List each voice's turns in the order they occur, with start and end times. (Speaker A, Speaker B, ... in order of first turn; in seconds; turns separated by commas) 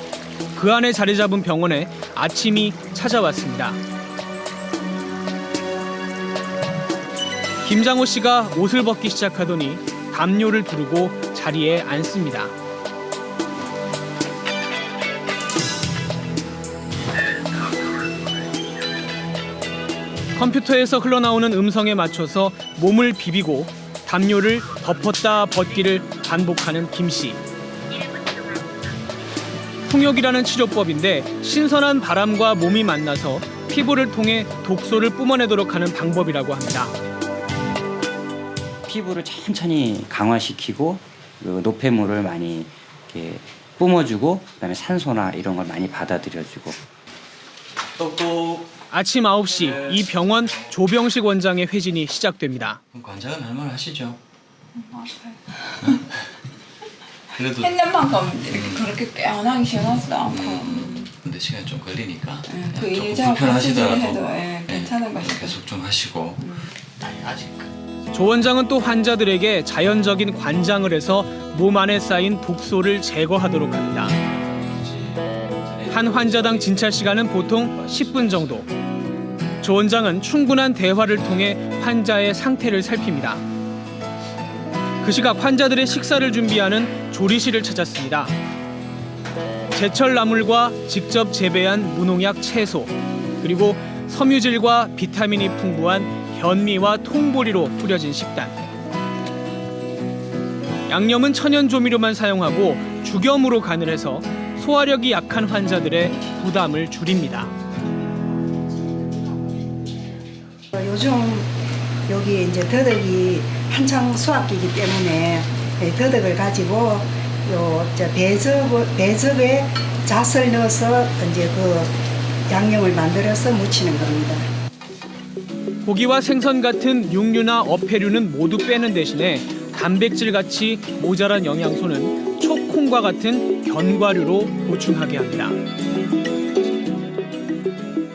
Speaker A: 0.5-3.8, Speaker A: 7.6-12.5, Speaker A: 20.3-27.4, Speaker A: 29.9-37.0, Speaker B: 38.9-46.8, Speaker C: 48.0-48.7, Speaker A: 48.9-52.8, Speaker C: 52.9-54.2, Speaker D: 54.7-56.0, Speaker C: 55.8-56.1, Speaker C: 57.3-59.7, Speaker D: 57.5-61.1, Speaker C: 60.2-67.7, Speaker D: 62.5-65.6, Speaker D: 66.4-66.7, Speaker A: 68.1-74.2, Speaker C: 74.6-76.8, Speaker A: 75.9-78.7, Speaker A: 79.6-83.4, Speaker A: 85.0-88.3, Speaker A: 89.7-98.6, Speaker A: 100.9-107.5, Speaker E: 110.7-111.5, Speaker E: 112.1-121.9, Speaker E: 122.5-124.5, Speaker A: 125.8-135.6